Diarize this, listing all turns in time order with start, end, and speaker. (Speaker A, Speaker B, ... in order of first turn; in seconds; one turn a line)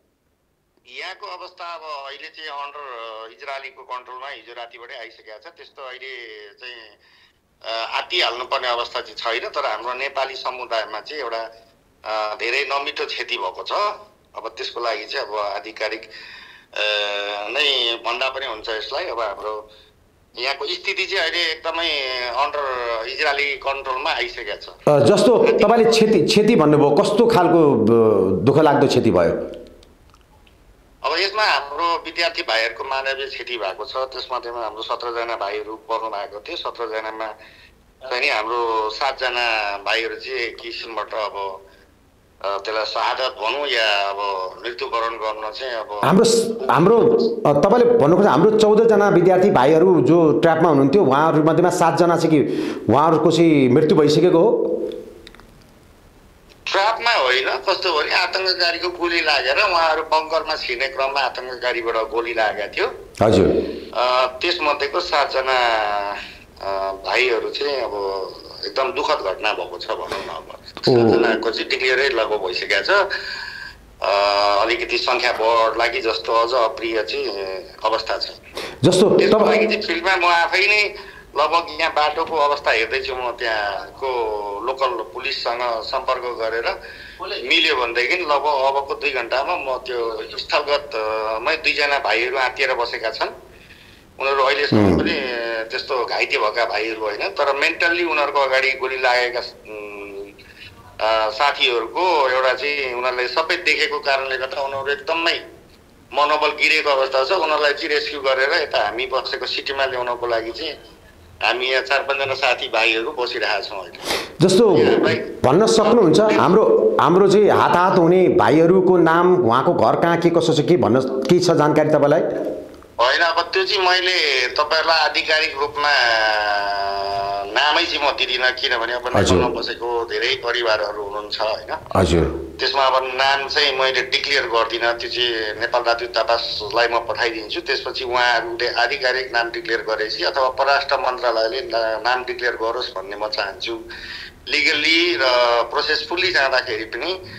Speaker A: 0.9-6.9
Speaker A: 7.6-11.4
Speaker A: 12.1-13.8
Speaker A: 14.3-16.1
Speaker A: 16.8-19.6
Speaker A: 20.4-24.7
Speaker B: 24.9-29.4
Speaker A: 25.4-26.1
Speaker A: 31.0-37.3
Speaker A: 38.0-41.6
Speaker A: 42.5-46.1
Speaker B: 46.0-54.5
Speaker A: 56.7-62.9
Speaker B: 63.2-63.6
Speaker A: 63.9-73.0
Speaker B: 70.9-71.2
Speaker A: 74.0-78.4
Speaker B: 78.8-79.5
Speaker A: 79.2-93.3
Speaker A: 94.2-100.3
Speaker B: 94.7-95.0
Speaker A: 101.0-105.4
Speaker A: 106.1-110.7
Speaker A: 111.5-114.0
Speaker B: 114.4-114.9
Speaker A: 114.7-115.3
Speaker B: 115.4-122.2
Speaker A: 115.8-116.3
Speaker A: 123.0-131.8
Speaker B: 129.1-129.5
Speaker B: 131.9-132.3
Speaker A: 132.6-143.8
Speaker A: 144.5-147.2